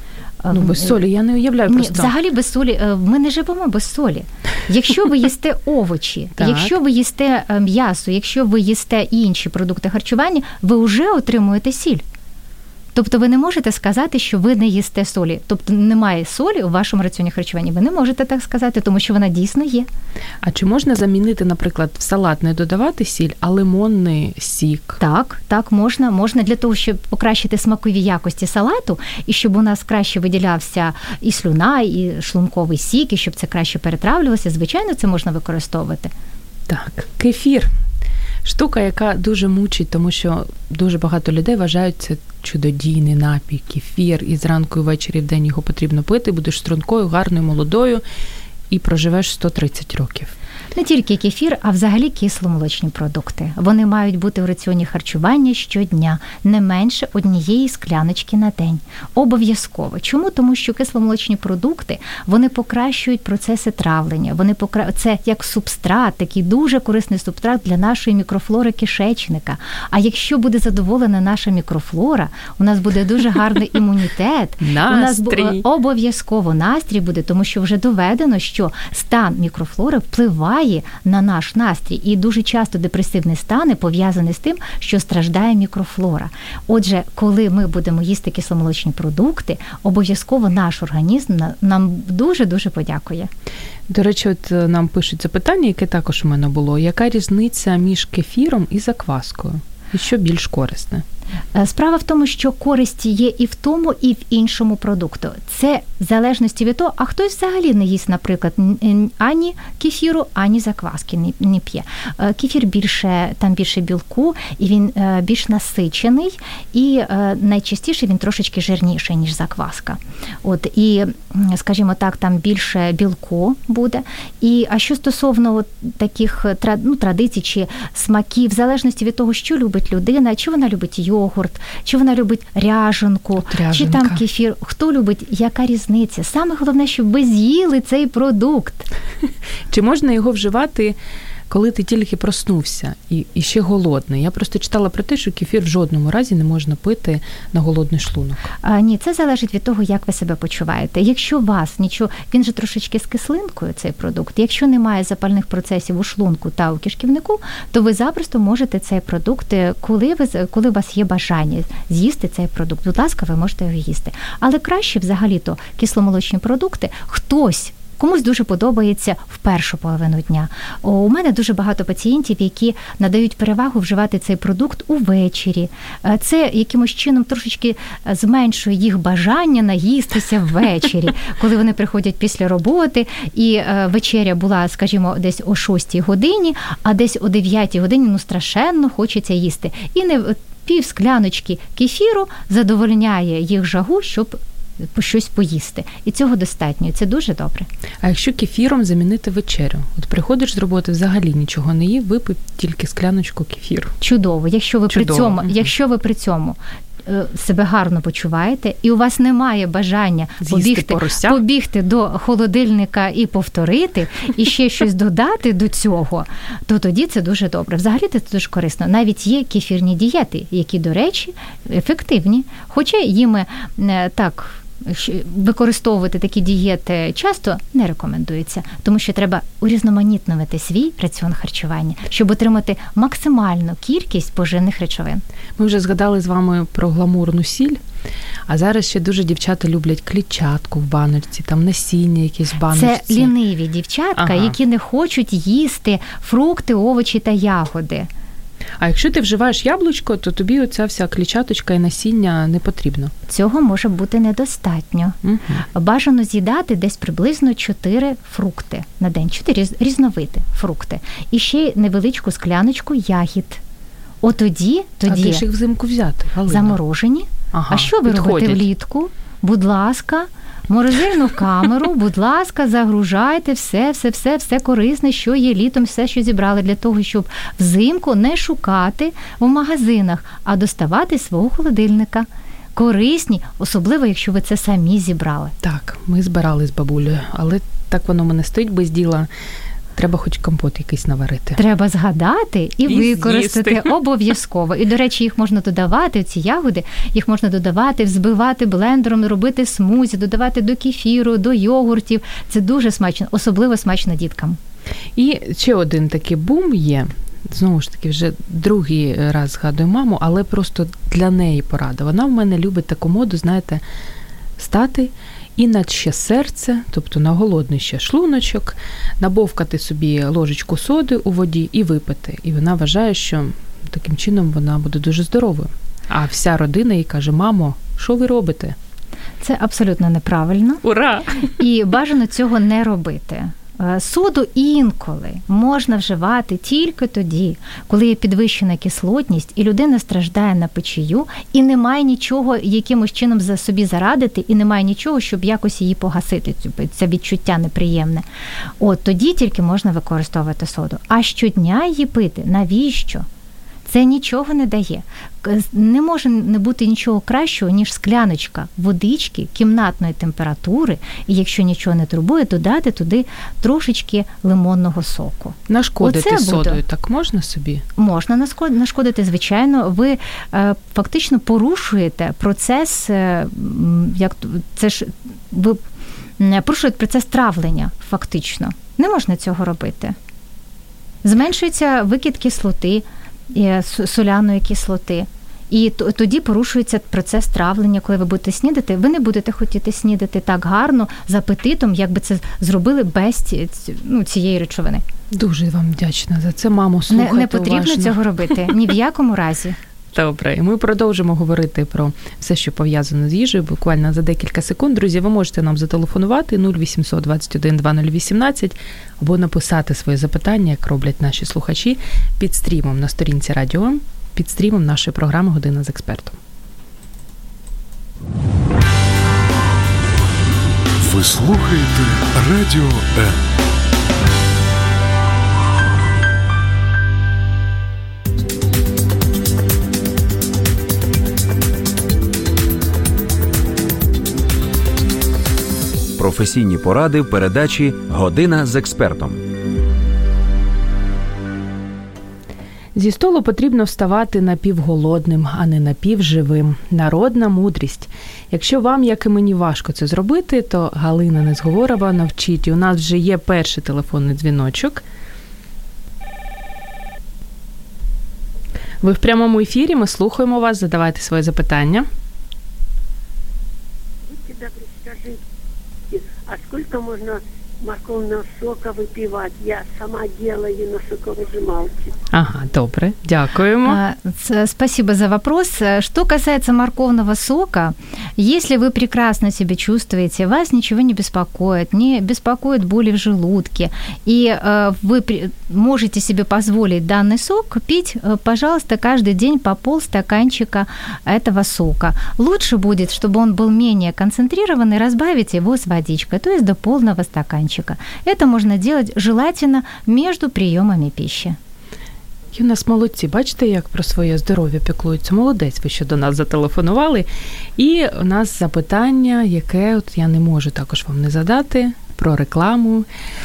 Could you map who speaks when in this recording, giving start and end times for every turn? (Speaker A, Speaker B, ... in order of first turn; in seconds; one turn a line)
Speaker A: 0.4-1.0
Speaker B: 0.5-2.1
Speaker A: 1.7-12.0
Speaker B: 6.4-6.7
Speaker A: 12.9-19.9
Speaker B: 20.4-25.0
Speaker A: 25.0-36.1
Speaker B: 36.7-37.7
Speaker B: 38.4-48.0
Speaker B: 48.7-50.3
Speaker A: 50.7-93.3
Speaker B: 74.6-75.6
Speaker B: 93.9-101.0
Speaker A: 101.5-138.9
Speaker B: 133.4-134.2
Speaker B: 139.7-140.9
Speaker B: 141.5-148.5
Speaker A: 148.6-194.4
Speaker A: 194.9-197.7
Speaker B: 198.0-203.9
Speaker A: 204.0-235.2
Speaker B: 204.9-205.7
Speaker B: 210.4-211.4
Speaker B: 235.6-237.8
Speaker B: 238.5-243.3
Speaker A: 242.7-248.1
Speaker B: 244.2-244.6
Speaker B: 248.8-253.1
Speaker A: 253.3-255.2
Speaker B: 255.2-255.6
Speaker A: 255.7-263.6
Speaker A: 264.2-265.4
Speaker B: 265.1-266.8
Speaker A: 266.5-285.5
Speaker B: 267.5-268.6
Speaker B: 285.6-289.3
Speaker B: 289.9-291.6
Speaker A: 291.6-304.6
Speaker B: 292.9-293.9
Speaker B: 305.1-313.8
Speaker B: 314.6-328.8
Speaker A: 329.4-330.8
Speaker B: 330.8-331.5
Speaker A: 331.5-348.2
Speaker A: 348.8-353.2
Speaker A: 353.8-366.8
Speaker B: 365.7-367.8
Speaker A: 367.9-375.8
Speaker A: 376.4-380.2
Speaker A: 381.2-395.0
Speaker B: 395.3-398.7
Speaker A: 397.1-399.8
Speaker B: 400.1-416.4
Speaker C: 421.0-423.5
Speaker D: 436.2-439.4
Speaker B: 442.9-455.0
Speaker B: 459.0-462.1
Speaker E: 464.3-465.4
Speaker E: 466.1-472.1
Speaker B: 472.3-474.0
Speaker A: 473.8-501.6
Speaker B: 502.5-507.2
Speaker B: 507.8-513.0